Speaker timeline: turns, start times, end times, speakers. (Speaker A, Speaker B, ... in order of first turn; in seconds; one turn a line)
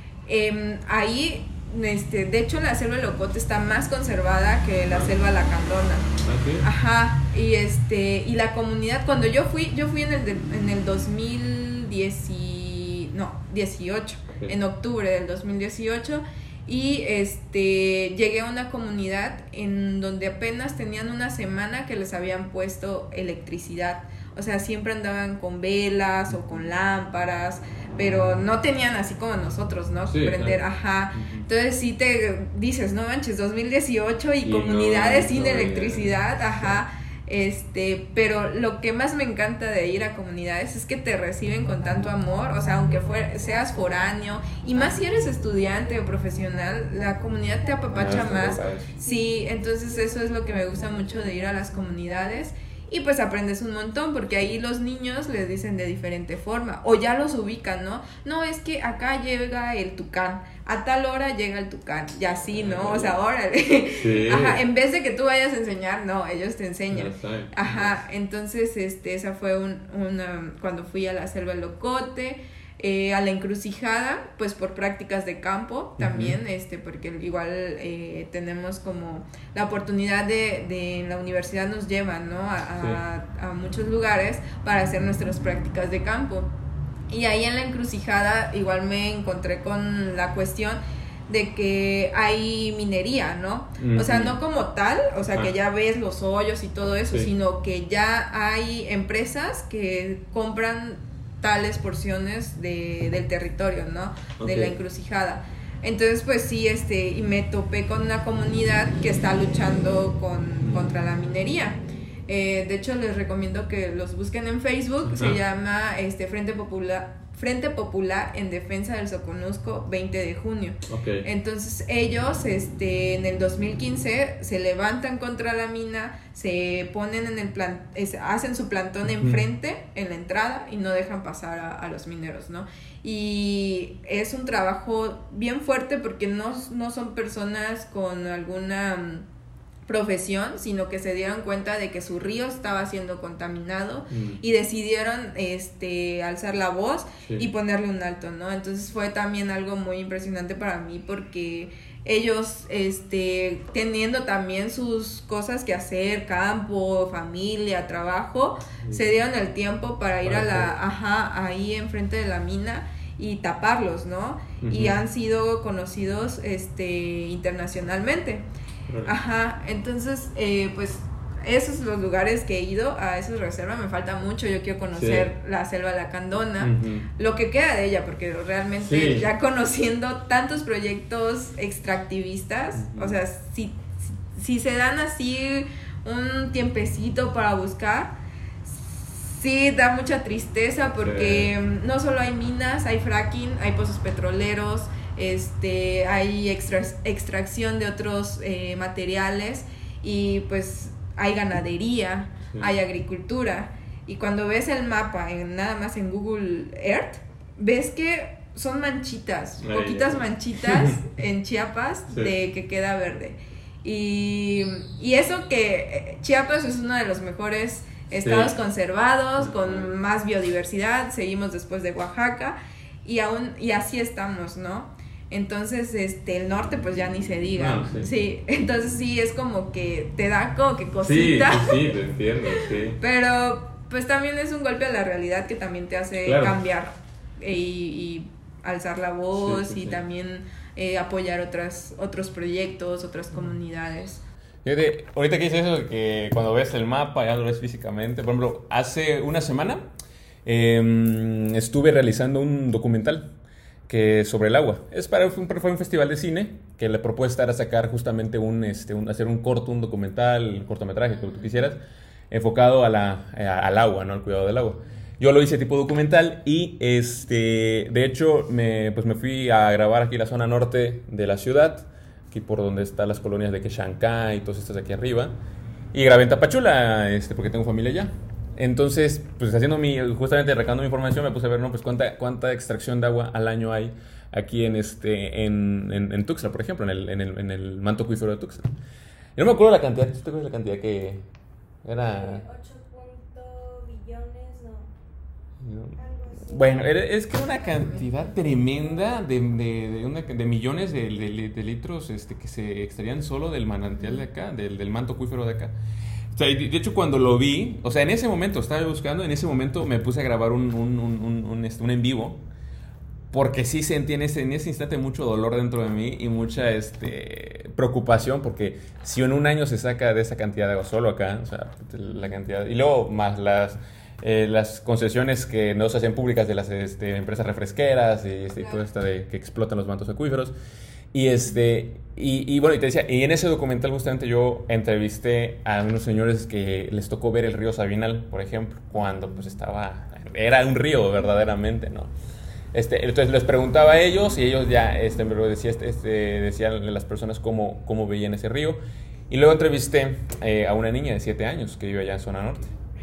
Speaker A: 0.3-6.1
Speaker B: 6.2-6.7
Speaker A: 6.6-86.5
Speaker B: 30.1-30.6
Speaker B: 31.1-31.5
Speaker B: 34.4-36.8
Speaker B: 47.9-48.9
Speaker B: 62.5-63.1
Speaker B: 64.0-64.6
Speaker B: 66.9-68.0
Speaker B: 76.0-76.4
Speaker A: 87.1-139.3
Speaker B: 93.8-94.4
Speaker B: 104.4-104.8
Speaker B: 115.1-115.4
Speaker B: 120.9-121.2
Speaker B: 129.1-129.4
Speaker A: 139.9-168.4
Speaker B: 144.1-144.4
Speaker B: 160.2-160.7
Speaker B: 164.6-165.0
Speaker A: 169.0-231.9
Speaker B: 175.0-175.3
Speaker B: 176.6-177.1
Speaker B: 178.8-179.3
Speaker B: 182.8-183.2
Speaker B: 191.0-191.5
Speaker B: 209.6-210.1
Speaker B: 210.7-211.0
Speaker B: 218.2-218.5
Speaker B: 219.4-219.9
Speaker B: 227.6-228.1
Speaker B: 231.0-233.0
Speaker A: 232.5-244.2
Speaker B: 236.2-236.6
Speaker B: 239.3-240.0
Speaker B: 244.6-249.8
Speaker B: 250.4-253.3
Speaker B: 253.9-261.8
Speaker B: 262.3-275.3
Speaker B: 275.9-288.7
Speaker B: 289.4-291.3
Speaker B: 291.9-292.4
Speaker C: 292.0-294.9
Speaker B: 295.6-305.7
Speaker C: 295.9-297.1
Speaker B: 306.3-312.4
Speaker B: 313.3-330.6
Speaker B: 331.1-342.1
Speaker B: 342.7-348.8
Speaker B: 349.3-352.7